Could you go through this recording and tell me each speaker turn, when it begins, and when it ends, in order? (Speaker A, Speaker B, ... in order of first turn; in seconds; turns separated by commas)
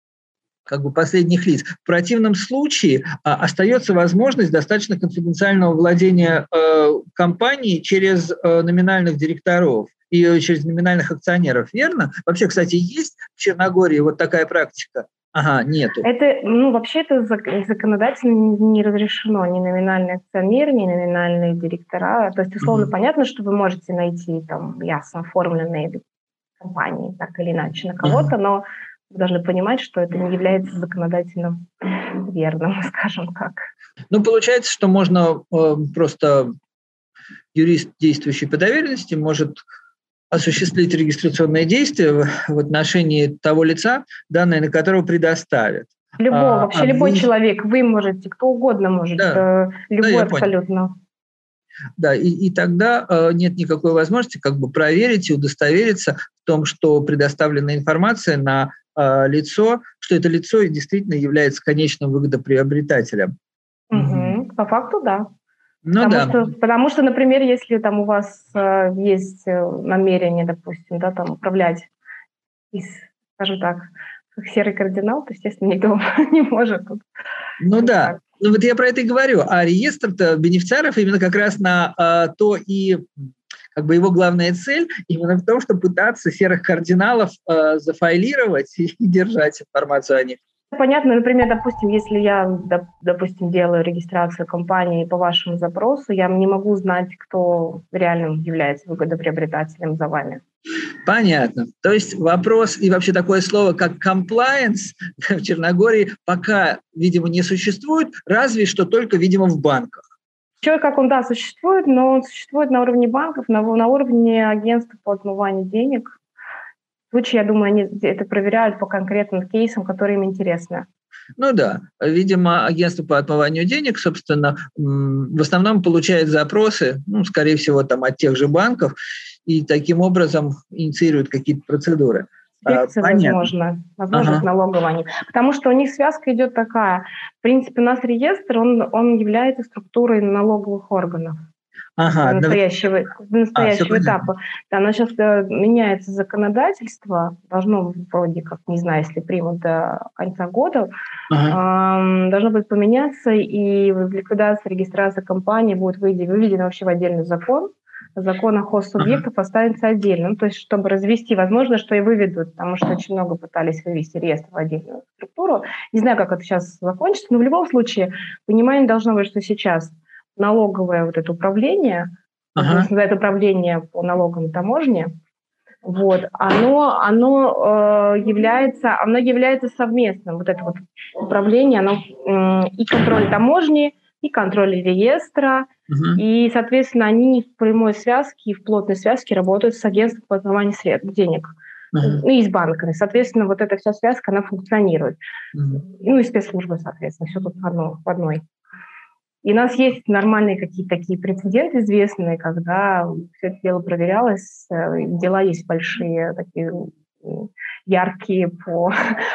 Speaker A: 0.7-16.1, Speaker B: 16.0-26.0, Speaker A: 22.6-22.9, Speaker B: 26.6-33.6, Speaker A: 28.0-28.3, Speaker A: 34.1-36.5, Speaker A: 37.5-39.6, Speaker A: 40.3-47.3, Speaker B: 46.2-50.9, Speaker A: 49.2-49.4, Speaker A: 50.0-50.5, Speaker A: 52.0-63.3, Speaker B: 63.9-65.3, Speaker A: 63.9-64.3, Speaker A: 65.8-66.5, Speaker B: 66.0-71.9, Speaker B: 72.7-77.0, Speaker A: 77.6-90.4, Speaker B: 77.8-78.2, Speaker B: 90.7-100.4, Speaker A: 101.0-110.0, Speaker B: 110.6-116.2, Speaker B: 117.1-120.8, Speaker A: 121.4-128.9, Speaker A: 129.5-133.5, Speaker B: 132.6-141.4, Speaker A: 134.1-134.5, Speaker A: 142.0-142.6, Speaker B: 142.0-150.9, Speaker A: 143.6-144.2, Speaker A: 151.3-151.6, Speaker B: 151.5-175.1, Speaker A: 172.6-172.9, Speaker B: 175.8-195.2, Speaker A: 185.9-186.2, Speaker A: 191.9-192.2, Speaker A: 195.6-195.8, Speaker B: 195.8-198.4, Speaker B: 199.4-208.9